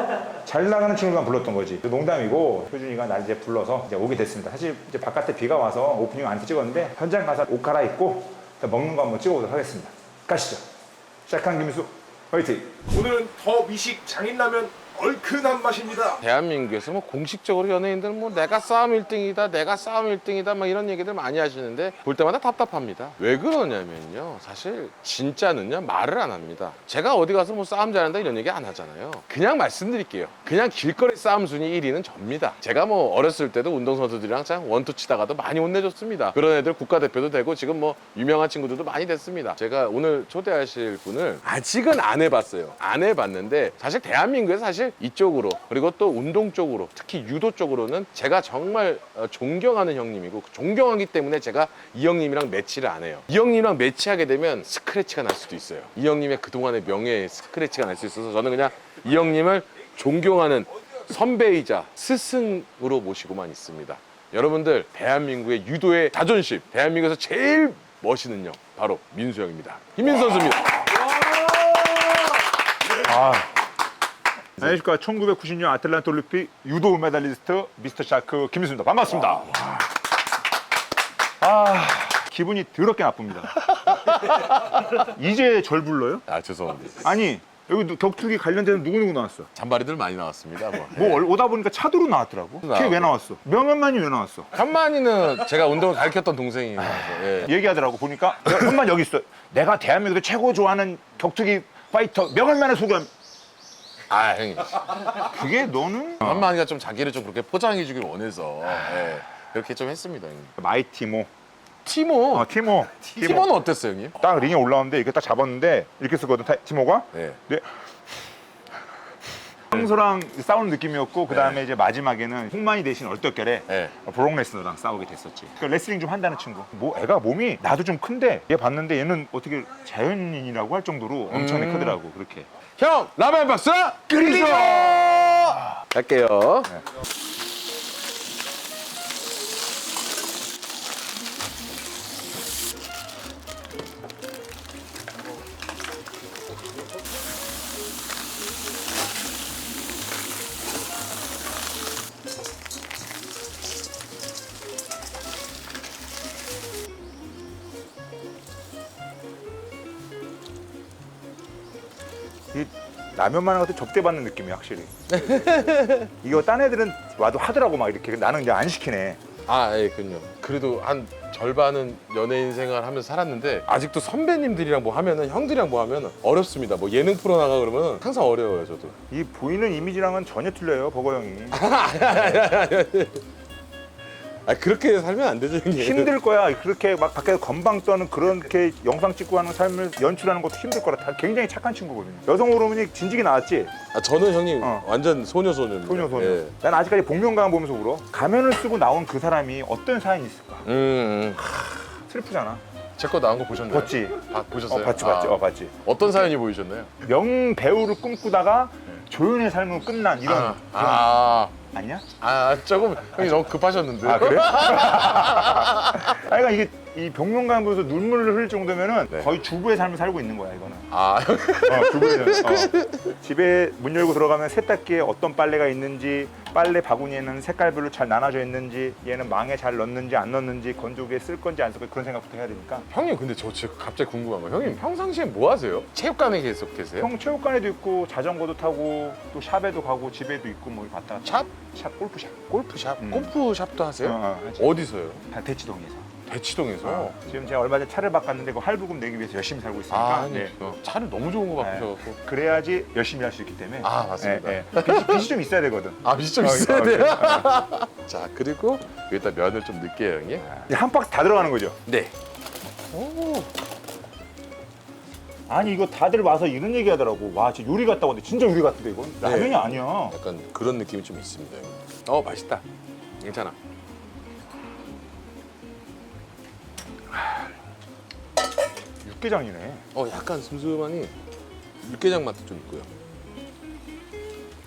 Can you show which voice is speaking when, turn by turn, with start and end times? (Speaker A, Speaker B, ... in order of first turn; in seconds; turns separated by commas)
Speaker A: 0.4-10.6, Speaker A: 11.3-12.8, Speaker B: 12.9-16.2, Speaker C: 16.2-71.8, Speaker A: 72.9-73.5, Speaker A: 74.6-79.8, Speaker A: 81.4-86.2, Speaker C: 83.7-84.9, Speaker C: 86.3-87.1, Speaker A: 87.0-89.5, Speaker C: 89.5-91.2, Speaker A: 90.9-94.5, Speaker C: 92.6-93.1, Speaker C: 94.5-97.5, Speaker A: 96.8-103.1, Speaker C: 104.1-105.3, Speaker A: 105.1-106.5, Speaker C: 106.2-110.5, Speaker A: 110.6-111.3, Speaker C: 111.8-114.2, Speaker A: 112.3-113.5, Speaker A: 114.2-117.7, Speaker C: 117.1-117.4, Speaker A: 119.7-132.5, Speaker C: 121.3-121.6, Speaker C: 123.7-123.9, Speaker C: 131.3-132.0, Speaker C: 132.8-136.8, Speaker A: 162.5-164.9, Speaker C: 165.1-166.1, Speaker A: 166.2-169.2, Speaker C: 169.5-179.0, Speaker A: 179.1-182.4, Speaker C: 181.5-183.2, Speaker C: 184.4-186.1, Speaker A: 185.7-193.7, Speaker C: 193.9-196.5, Speaker A: 194.6-194.8, Speaker A: 195.8-200.7, Speaker C: 200.6-201.9, Speaker A: 202.1-202.6, Speaker C: 203.0-206.9, Speaker A: 203.7-205.8, Speaker A: 207.0-212.0, Speaker C: 210.2-211.5, Speaker C: 212.2-216.1, Speaker A: 213.2-213.5, Speaker A: 214.0-220.9, Speaker C: 220.9-223.1, Speaker A: 221.6-232.9, Speaker C: 232.9-237.1, Speaker A: 237.0-242.4, Speaker C: 241.2-241.5, Speaker C: 242.5-245.2, Speaker A: 243.0-243.3, Speaker A: 244.0-246.1, Speaker C: 246.3-247.5, Speaker A: 246.8-250.5, Speaker C: 249.9-252.2, Speaker A: 251.6-257.6, Speaker C: 253.8-255.2, Speaker C: 256.0-260.5, Speaker A: 260.5-261.8, Speaker C: 261.9-262.1, Speaker C: 262.9-263.5, Speaker A: 265.5-270.1, Speaker C: 269.2-272.6, Speaker C: 273.2-273.5, Speaker A: 279.0-279.9, Speaker C: 279.9-281.1, Speaker C: 281.8-282.9